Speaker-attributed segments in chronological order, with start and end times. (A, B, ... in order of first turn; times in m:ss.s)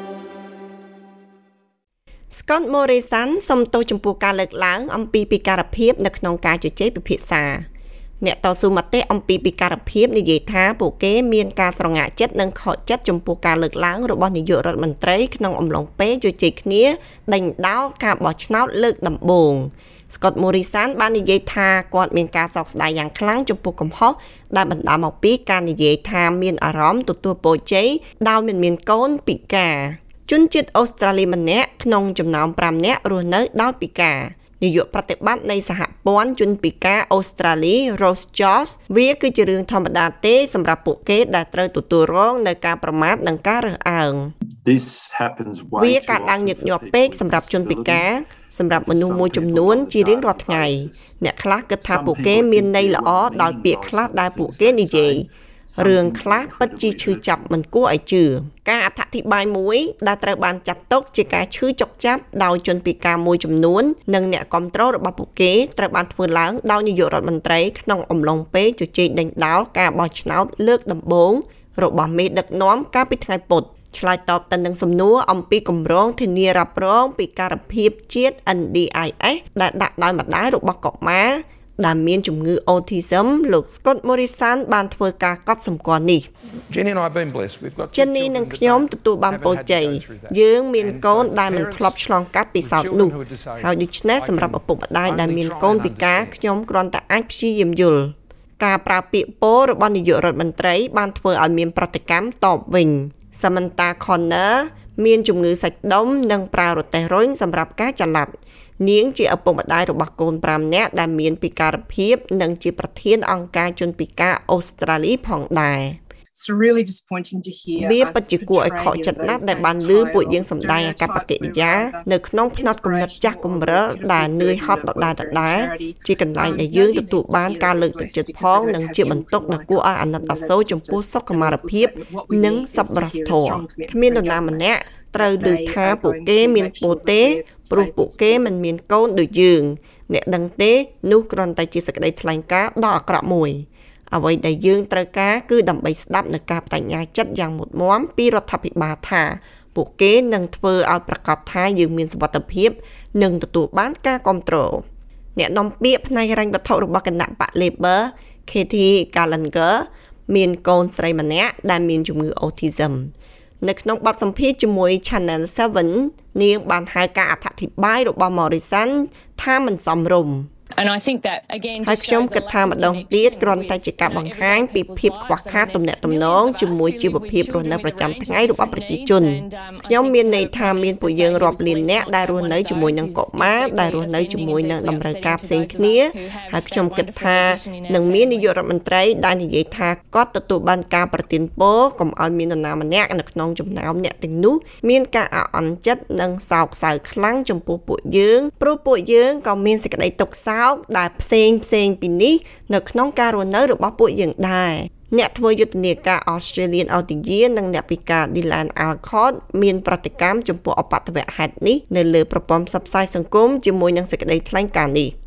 0:02.3-0:07.6 A
0:08.2-0:44.3 A
0:44.6-0:48.1 B
0:45.8-1:26.3 A
0:48.7-0:51.1 B
0:51.8-0:57.4 B
1:26.7-1:32.0 C
1:27.9-1:56.0 A
1:32.6-1:36.4 C
1:56.3-2:18.5 D
1:57.8-2:34.8 A
2:35.4-2:50.5 A
2:50.8-3:08.5 E
2:51.8-3:35.1 A